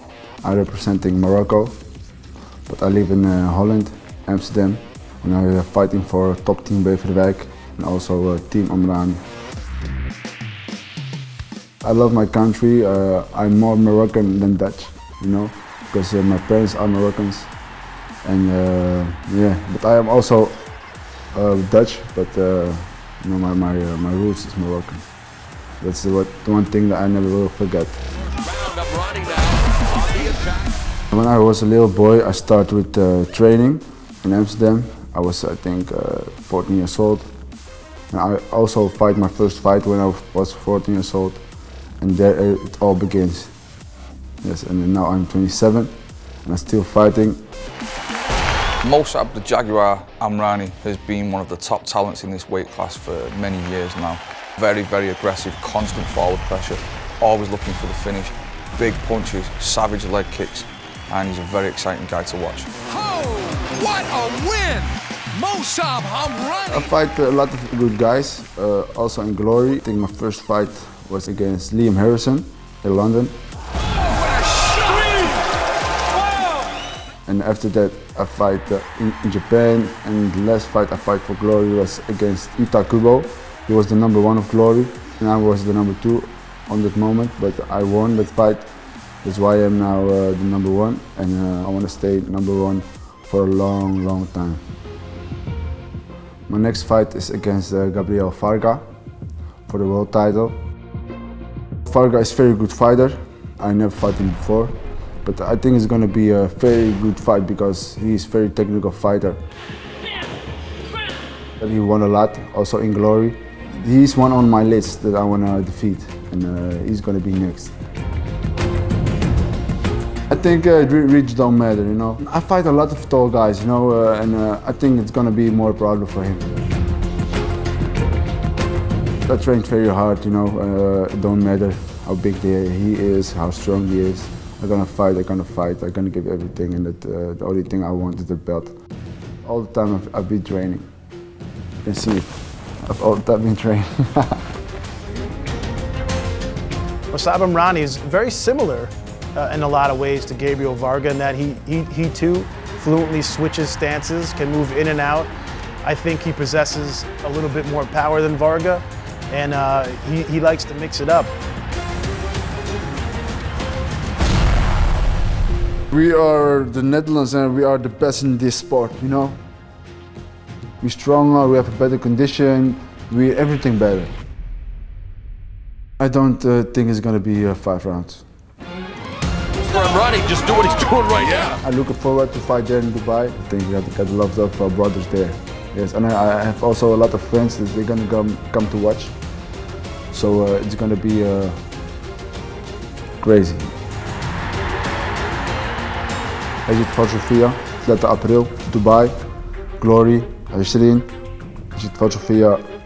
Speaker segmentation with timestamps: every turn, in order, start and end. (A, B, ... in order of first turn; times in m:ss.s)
0:00.4-0:01.8 A
0:02.7-0:09.2 A
0:11.8-0:17.5 A
0:18.2-0:20.7 A
0:21.3-0:25.0 A
0:25.8-0:28.0 A
0:28.4-0:30.7 B
0:31.1-0:37.3 A
0:38.1-0:41.4 A
0:42.0-0:43.5 A
0:44.4-0:47.4 A
0:48.8-1:02.7 C
1:02.8-1:06.9 B
1:06.7-1:13.4 A
1:14.0-1:15.4 B
1:17.2-1:28.7 A
1:29.2-1:34.6 A
1:36.5-1:38.8 A
1:39.7-1:40.6 A
1:41.9-1:49.4 A
1:51.6-1:57.7 A
2:00.3-2:06.5 A
2:09.2-2:18.7 A
2:19.4-2:20.9 A
2:21.8-2:24.4 A
2:27.1-2:35.3 D
2:35.8-2:41.3 D
2:45.9-2:49.4 A
2:50.8-2:54.1 A
2:56.0-2:58.2 A
2:59.6-3:01.6 B
3:01.6-3:09.1 A
3:10.1-3:11.6 A
3:13.2-3:13.7 A
3:16.6-3:19.1 A
3:19.8-3:21.1 A
3:21.7-3:22.6 A